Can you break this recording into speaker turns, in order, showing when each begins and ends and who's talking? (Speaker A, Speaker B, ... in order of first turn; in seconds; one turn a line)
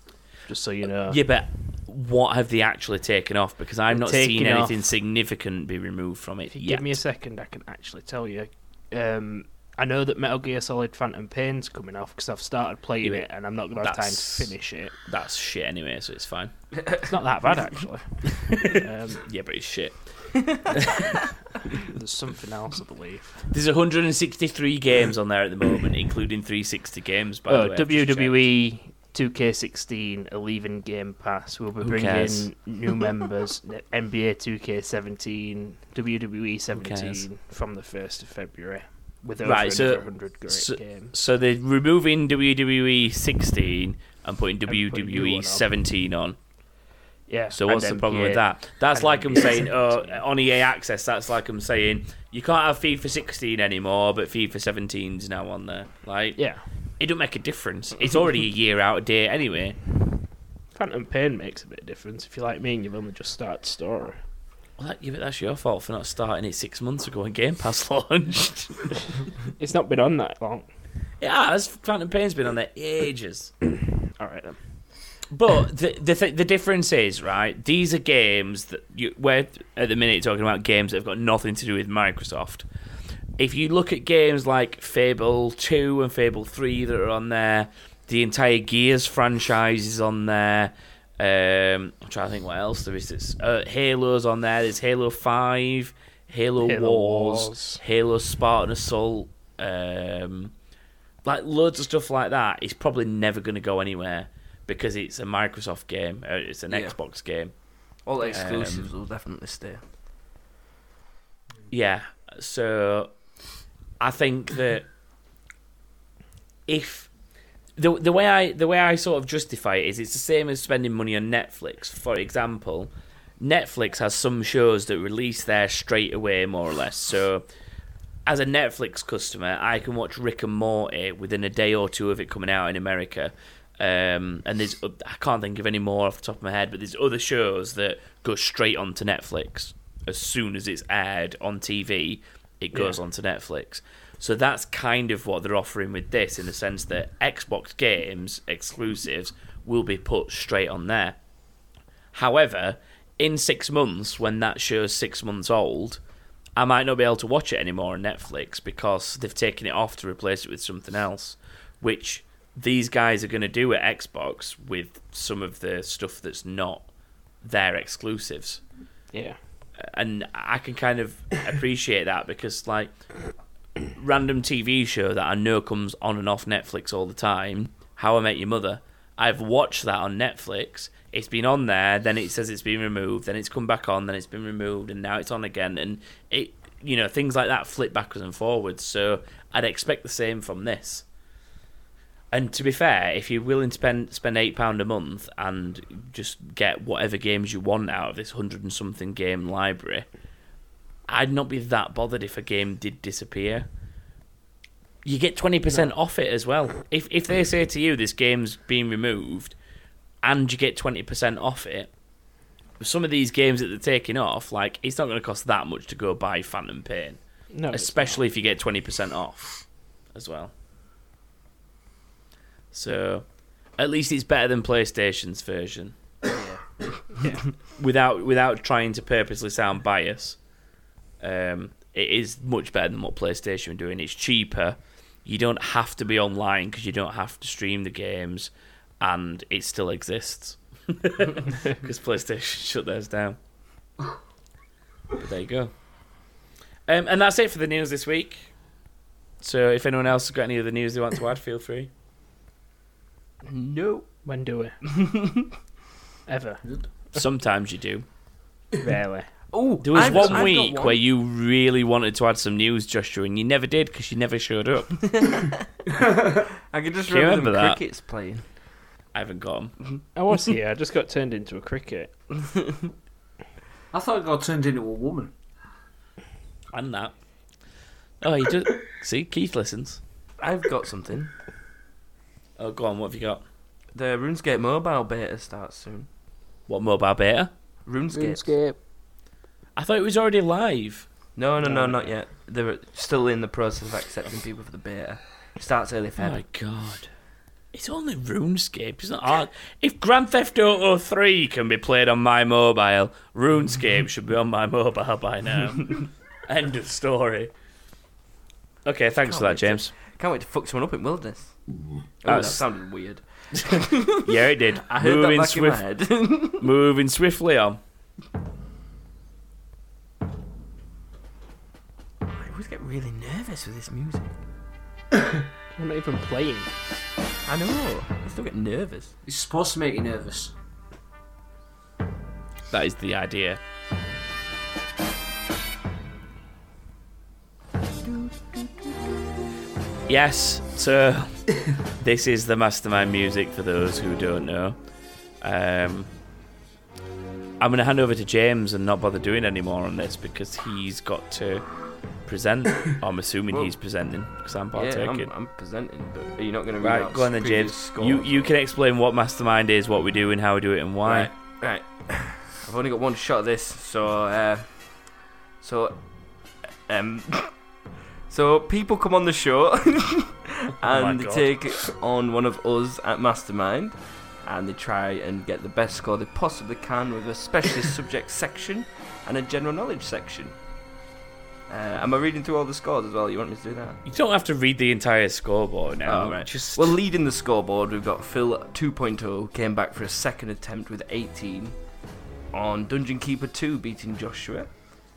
Speaker A: 0.5-1.2
Speaker B: 1.1-7.0
Speaker A: 3.9-4.8
Speaker A: 6.5-14.9
Speaker B: 13.8-14.5
Speaker B: 15.0-16.5
Speaker A: 17.1-19.2
Speaker B: 18.4-21.2
Speaker C: 20.4-20.7
Speaker A: 21.7-23.5
Speaker B: 23.5-28.4
Speaker A: 27.5-41.1
Speaker B: 31.8-32.5
Speaker B: 36.7-37.2
Speaker B: 39.4-46.4
Speaker A: 44.7-45.6
Speaker A: 47.3-50.2
Speaker B: 47.5-56.4
Speaker A: 56.4-56.6
Speaker B: 57.0-59.8
Speaker A: 60.7-64.2
Speaker B: 64.8-68.9
Speaker A: 69.6-70.7
Speaker B: 71.2-73.5
Speaker A: 74.2-74.6
Speaker B: 75.3-82.7
Speaker B: 83.4-100.5
Speaker A: 96.6-97.8
Speaker B: 101.2-107.5
Speaker C: 106.7-106.9
Speaker C: 108.0-109.8
Speaker B: 108.2-108.9
Speaker B: 111.7-113.1
Speaker B: 114.0-114.9
Speaker B: 116.7-117.1
Speaker B: 117.8-127.4
Speaker B: 128.2-151.2
Speaker A: 142.7-143.0
Speaker B: 152.1-156.0
Speaker B: 156.6-166.9
Speaker B: 167.4-168.6
Speaker B: 169.8-172.9
Speaker B: 173.9-191.0
Speaker B: 192.3-200.1
Speaker B: 201.1-203.7
Speaker B: 205.0-209.6
Speaker B: 210.2-211.9
Speaker B: 212.8-217.2
Speaker A: 217.5-218.2
Speaker B: 217.7-219.6
Speaker B: 220.1-220.5
Speaker B: 222.7-223.2
Speaker B: 223.8-225.9
Speaker A: 226.3-227.4
Speaker B: 227.8-230.4
Speaker B: 231.2-243.4
Speaker B: 245.2-245.7
Speaker B: 246.9-248.5
Speaker B: 249.4-251.9
Speaker C: 253.4-254.1
Speaker A: 254.2-254.8
Speaker C: 254.9-255.5
Speaker A: 256.3-256.6
Speaker B: 257.1-258.1
Speaker A: 258.8-259.3
Speaker C: 259.5-261.0
Speaker B: 259.8-265.1
Speaker A: 259.9-260.5
Speaker C: 264.9-268.4
Speaker D: 265.9-266.4
Speaker B: 267.1-267.8
Speaker B: 269.1-269.7
Speaker A: 270.1-272.1
Speaker C: 272.4-272.8
Speaker D: 273.9-275.3
Speaker B: 276.7-277.1
Speaker B: 278.2-280.0
Speaker C: 280.4-281.3
Speaker B: 282.6-283.4
Speaker C: 283.9-286.1
Speaker B: 286.7-287.5
Speaker C: 287.9-288.4
Speaker A: 288.1-288.8
Speaker B: 289.8-291.1
Speaker C: 291.4-296.4
Speaker A: 291.6-292.1
Speaker B: 296.2-297.1
Speaker B: 297.7-307.5
Speaker B: 308.8-309.9
Speaker C: 309.2-311.5
Speaker C: 312.2-316.7
Speaker B: 312.2-312.6
Speaker B: 314.2-315.8
Speaker B: 316.5-317.8
Speaker C: 322.3-324.3
Speaker A: 325.8-326.7
Speaker C: 327.4-329.1
Speaker D: 329.2-330.5
Speaker B: 332.7-333.6
Speaker C: 338.0-339.0
Speaker B: 340.1-344.8
Speaker B: 345.4-346.1
Speaker B: 347.6-351.7
Speaker B: 352.2-355.3
Speaker C: 354.7-358.5
Speaker B: 356.8-361.3
Speaker C: 361.0-365.0
Speaker C: 365.6-366.0
Speaker C: 366.9-367.5
Speaker C: 368.3-380.6
Speaker B: 370.8-371.6
Speaker C: 381.7-384.0
Speaker B: 384.0-386.9
Speaker C: 386.1-391.8
Speaker C: 392.5-394.7